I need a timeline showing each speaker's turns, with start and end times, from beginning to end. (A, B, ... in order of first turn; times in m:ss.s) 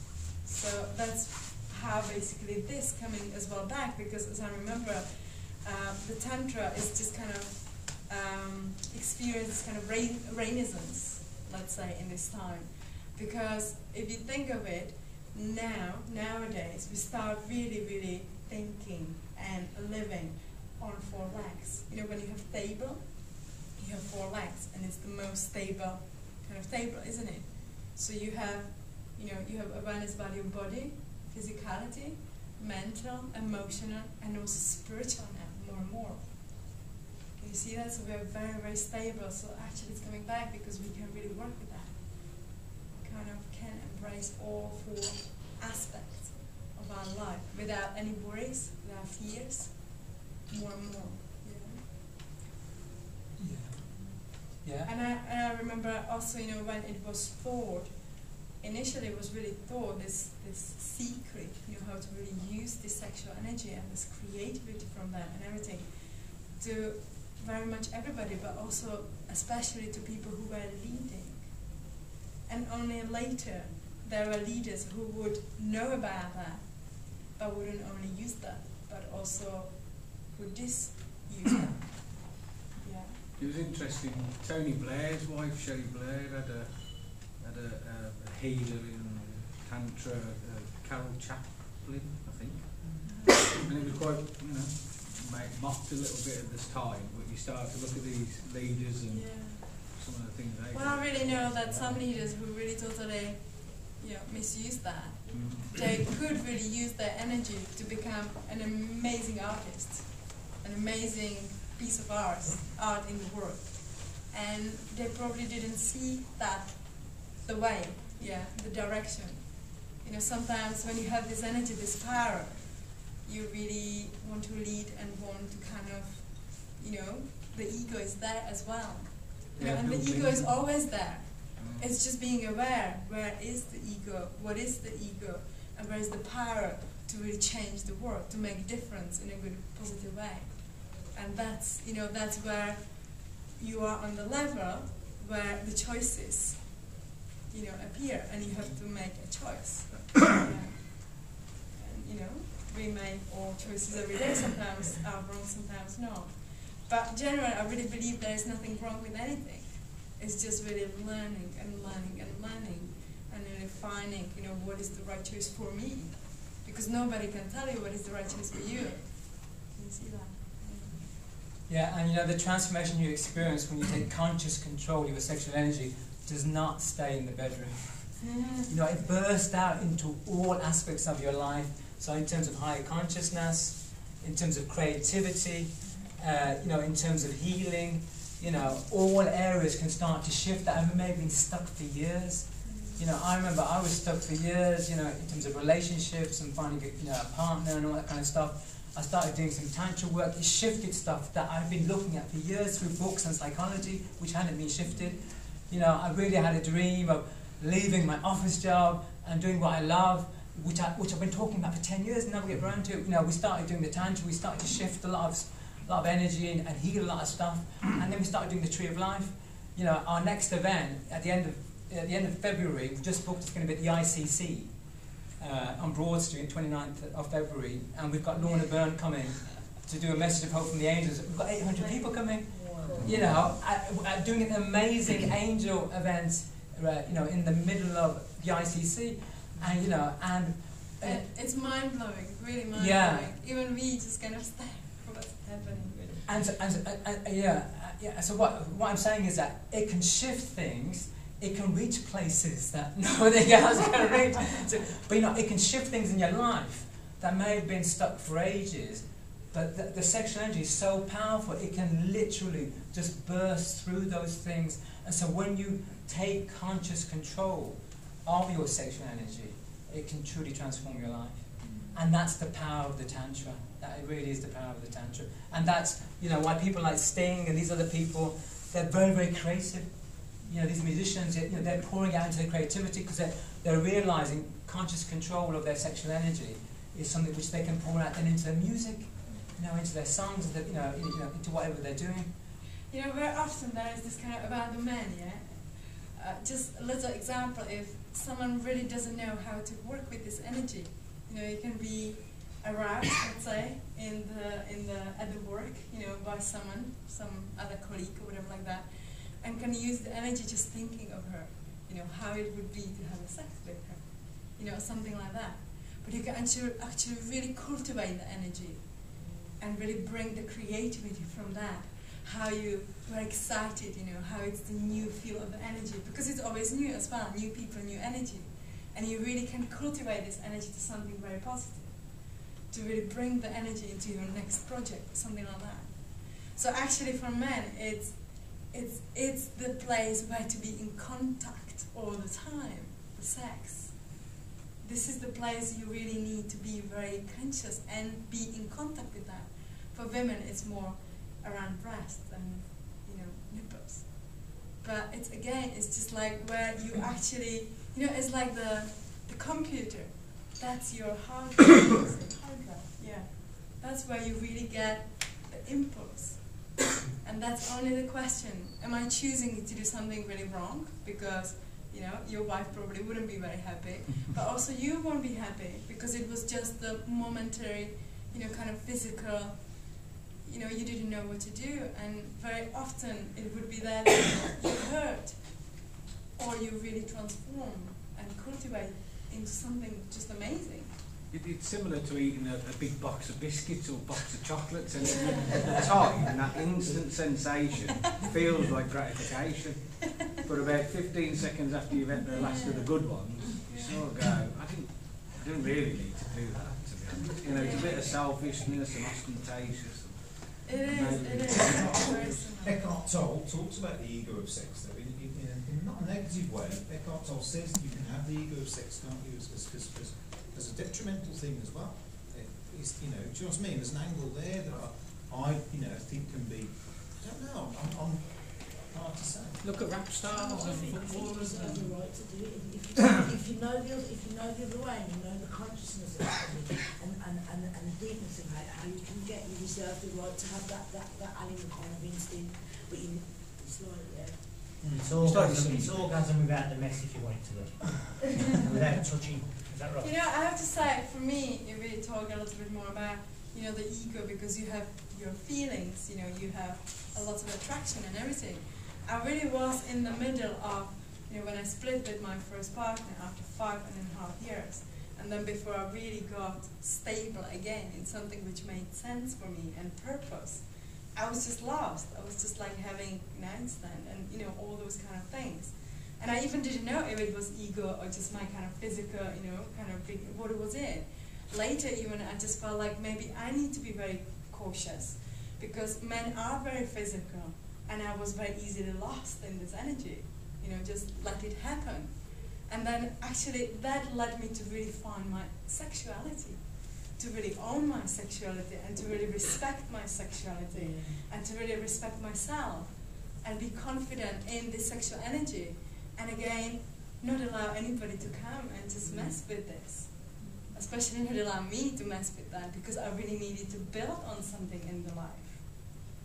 0:00.4-0:36.7 A
0:37.4-0:51.8 A
0:53.4-0:54.9 B
0:54.0-1:11.7 A
1:12.5-1:23.2 A
1:23.4-1:41.9 C
1:33.1-1:33.4 A
1:39.1-1:39.7 A
1:40.7-2:26.9 A
1:45.3-1:45.9 C
2:09.6-2:10.6 C
2:11.5-2:11.9 C
2:27.5-2:51.0 A
2:51.7-4:01.2 B
2:58.2-2:58.7 A
3:12.6-3:13.0 A
3:51.7-3:52.6 A
3:52.5-3:53.2 D
3:53.0-3:53.3 E
4:01.0-4:06.2 A
4:02.7-4:03.3 B
4:06.2-4:52.3 B
4:31.6-4:31.9 A
4:52.9-5:19.0 A
5:19.2-5:19.4 D
5:19.6-5:44.1 A
5:44.8-6:25.8 A
6:02.3-6:02.9 D
6:26.4-6:30.9 A
6:31.3-6:52.5 C
6:35.0-6:35.7 A
6:42.3-6:44.0 A
6:47.5-6:48.0 A
6:50.6-6:52.8 A
6:52.3-7:09.6 E
7:09.6-7:12.0 C
7:10.2-7:24.8 D
7:12.9-7:13.2 C
7:24.8-7:25.1 E
7:24.9-7:30.2 F
7:25.0-7:26.0 C
7:30.0-8:36.0 A
8:20.7-8:21.2 D
8:29.0-8:29.3 D
8:30.4-8:30.6 D